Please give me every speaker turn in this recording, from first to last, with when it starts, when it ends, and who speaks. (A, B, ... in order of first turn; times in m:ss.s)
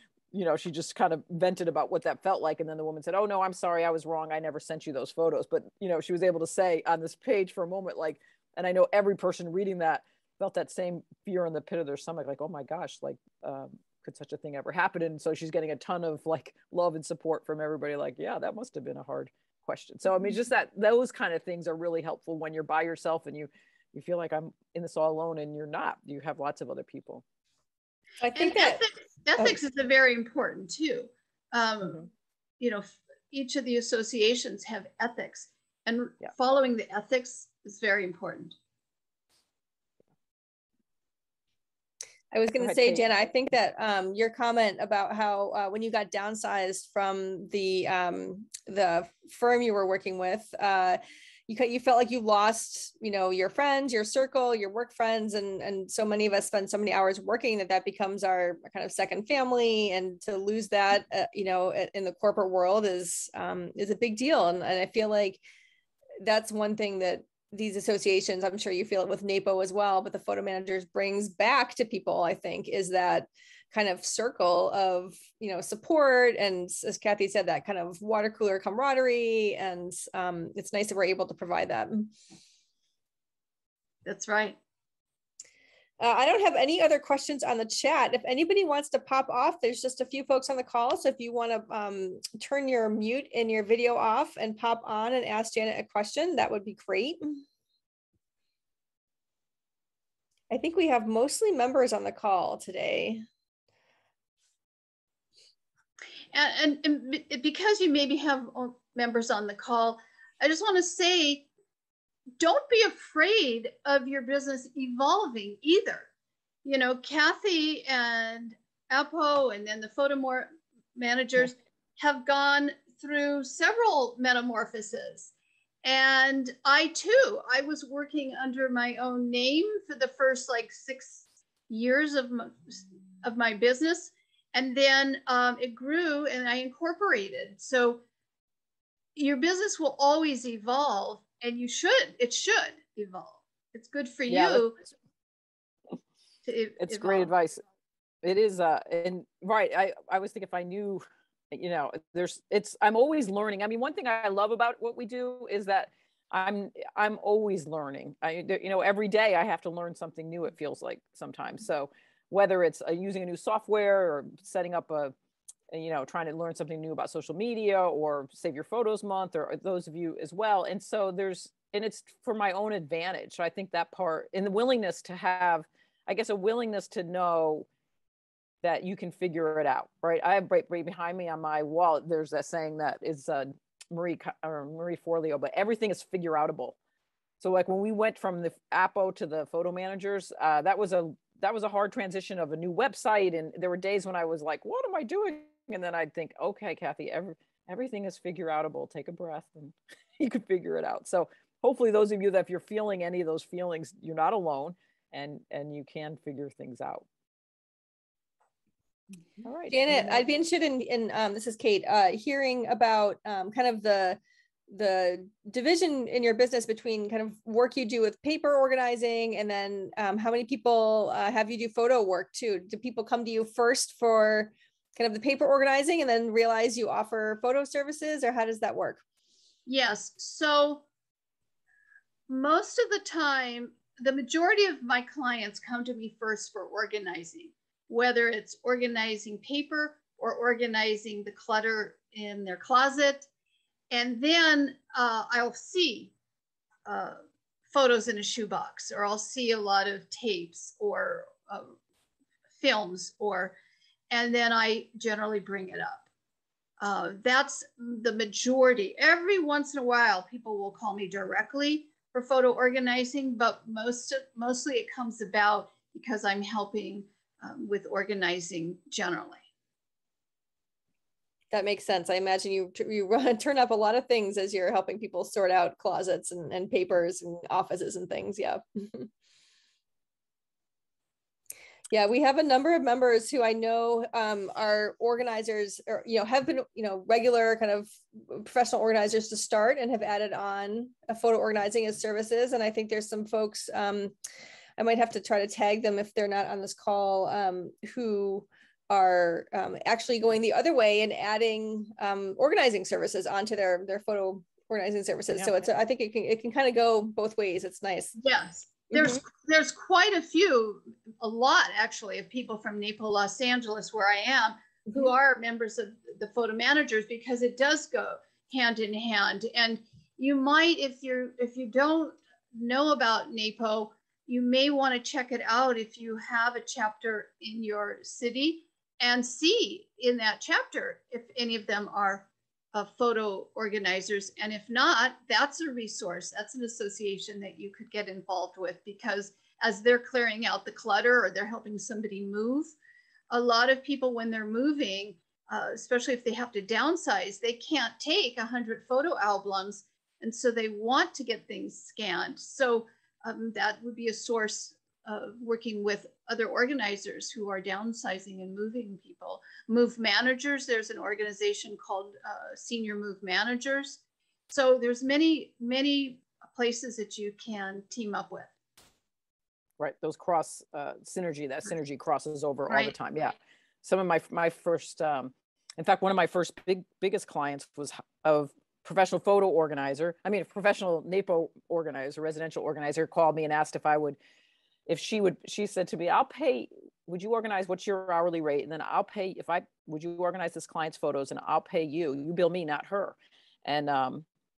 0:00.3-0:27.2 A
0:28.2-0:28.8 B
0:28.3-0:32.0 C
0:32.6-0:38.6 C
0:42.3-1:05.4 B
0:42.6-0:43.0 A
1:06.2-1:22.1 B
1:24.0-1:24.6 C
1:26.0-1:37.4 B
1:40.5-1:43.2 B
1:46.3-1:51.5 C
1:52.4-1:56.1 C
1:56.6-2:05.3 C
2:05.8-2:18.0 C
2:19.2-2:24.8 C
2:24.3-2:24.7 A
2:26.4-2:27.3 C
2:26.8-2:27.6 A
2:28.2-2:45.1 A
2:45.7-2:57.7 A
2:58.6-3:06.8 A
3:07.4-3:27.0 A
3:29.4-3:29.9 A
3:29.7-3:49.0 B
3:49.6-3:50.8 C
3:52.3-4:03.3 C
4:03.9-4:06.1 C
4:06.8-4:07.2 C
4:07.7-4:11.8 C
4:12.6-4:13.5 C
4:14.1-4:16.0 C
4:16.8-4:29.4 C
4:31.5-4:39.1 B
4:41.9-4:54.1 B
4:54.8-5:08.2 B
5:08.2-5:42.7 C
5:43.3-6:08.5 C
6:09.8-6:24.2 A
6:12.7-6:12.9 C
6:24.9-6:34.2 A